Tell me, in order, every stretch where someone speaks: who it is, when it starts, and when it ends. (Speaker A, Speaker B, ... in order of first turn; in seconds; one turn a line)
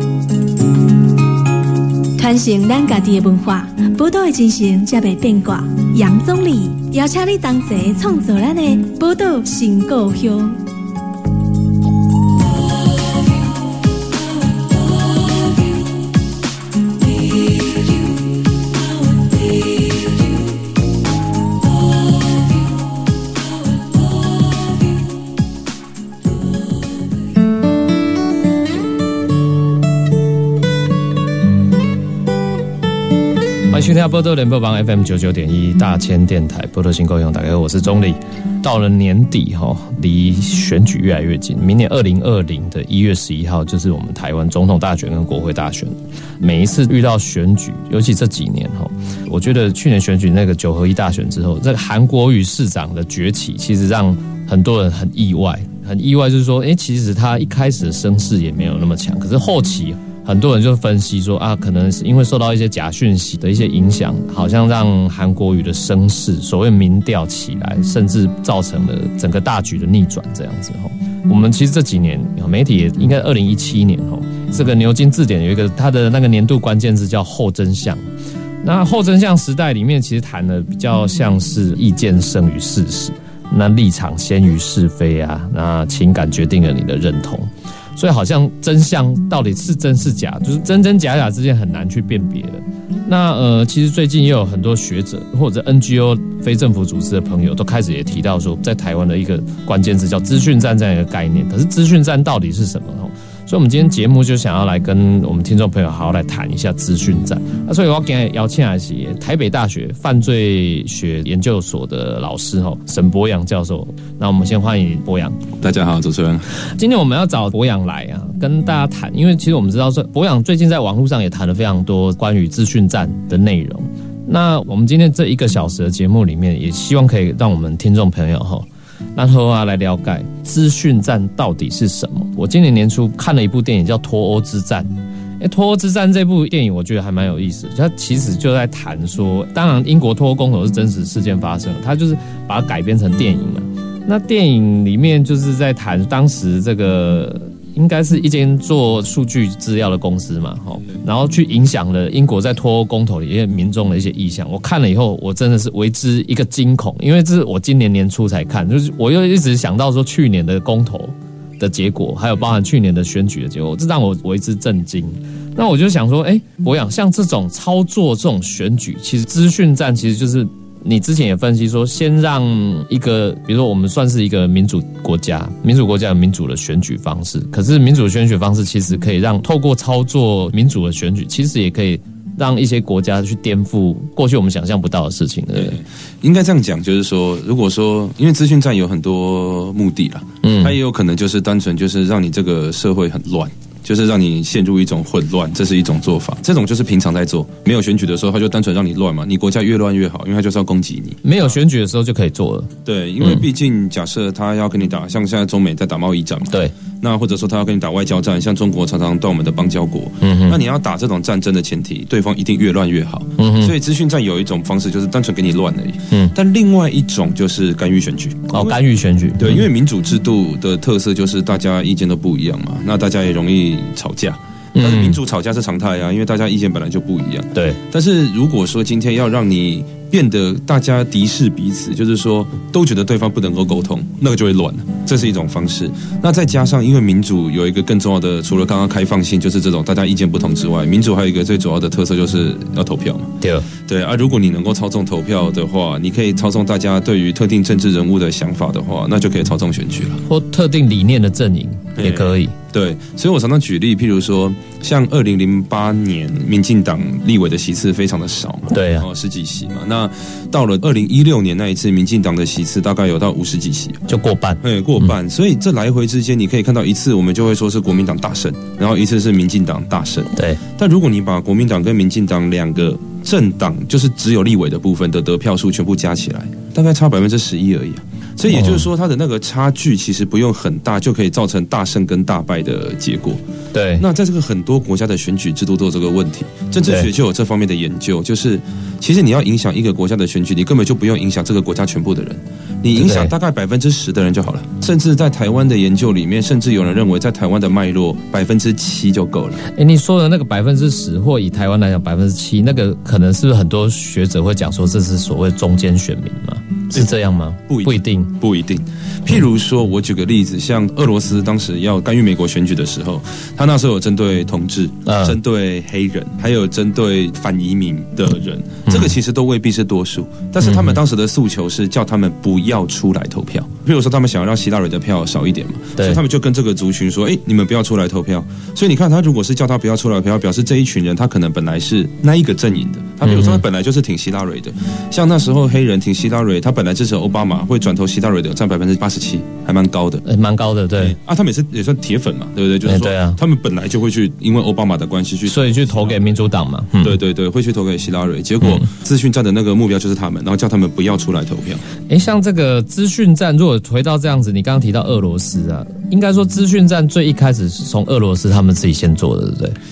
Speaker A: 2.1-10.6
Speaker B: 33.7-78.0
Speaker B: 78.6-115.5
Speaker C: 115.6-116.5
Speaker B: 116.6-185.8
Speaker C: 185.5-201.2
Speaker B: 190.4-190.7
Speaker B: 201.2-202.7
Speaker C: 202.8-218.8
Speaker B: 210.2-210.6
Speaker B: 213.4-213.7
Speaker B: 218.5-219.6
Speaker C: 219.4-250.2
Speaker B: 224.8-225.2
Speaker B: 243.4-243.7
Speaker B: 250.3-252.5
Speaker C: 252.0-264.1
Speaker B: 258.7-259.1
Speaker B: 264.1-264.6
Speaker C: 264.6-283.4
Speaker B: 278.5-278.9
Speaker B: 283.7-284.1
Speaker C: 284.0-299.6
Speaker B: 292.9-293.3
Speaker B: 299.7-308.3
Speaker C: 307.7-340.2
Speaker B: 315.1-315.4
Speaker B: 318.9-319.1
Speaker B: 320.6-320.9
Speaker B: 333.2-333.6
Speaker B: 340.2-341.1
Speaker C: 341.0-346.4
Speaker B: 342.8-343.4
Speaker B: 345.5-347.1
Speaker C: 347.0-351.8
Speaker B: 352.1-359.8